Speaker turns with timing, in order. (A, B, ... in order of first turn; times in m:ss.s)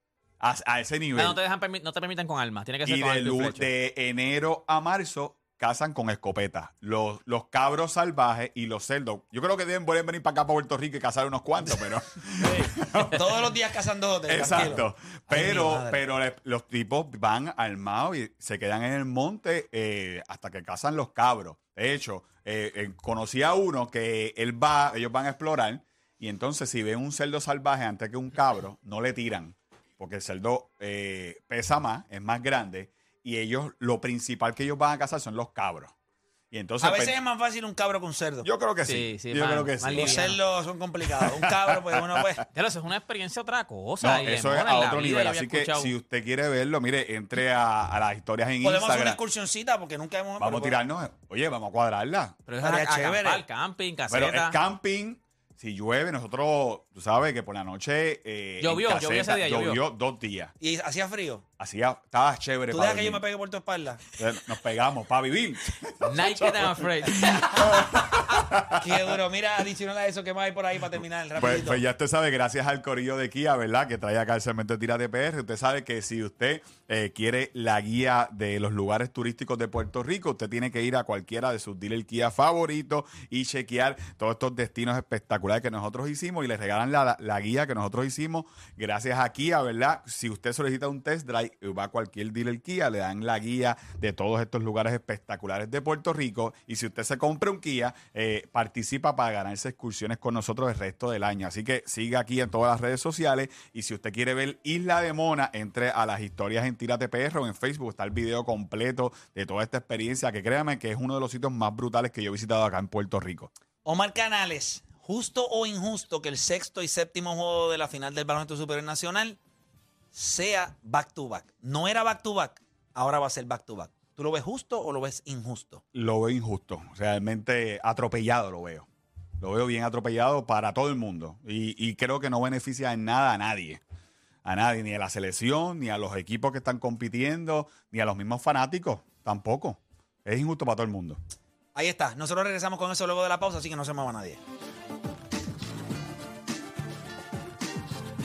0:00.4-0:01.4 A
0:01.2-0:03.7 B
0:02.8-0:13.5 A
0:12.4-0:13.2 B
0:13.1-0:16.0 C
0:14.3-0:35.9 A
0:36.5-0:37.2 A
0:36.8-0:38.5 C
0:38.4-0:40.3 A
0:38.8-0:40.4 B
0:39.9-0:42.4 C
0:41.1-0:42.4 A
0:42.5-0:45.9 B
0:44.0-0:49.2 A
0:48.6-0:50.8 C
0:50.4-0:52.4 A
0:52.5-0:54.6 B
0:52.6-0:53.4 C
0:54.1-1:00.5 A
0:58.6-0:59.8 B
1:00.6-1:01.4 C
1:01.6-1:03.2 A
1:02.7-1:04.0 C
1:04.2-1:09.1 A
1:06.0-1:08.4 B
1:08.8-1:11.8 C
1:11.4-1:53.5 A
1:53.8-1:59.4 C
2:00.1-2:05.8 C
2:05.9-2:08.9 A
2:09.4-2:13.8 A
2:14.4-2:21.2 A
2:21.8-2:24.4 C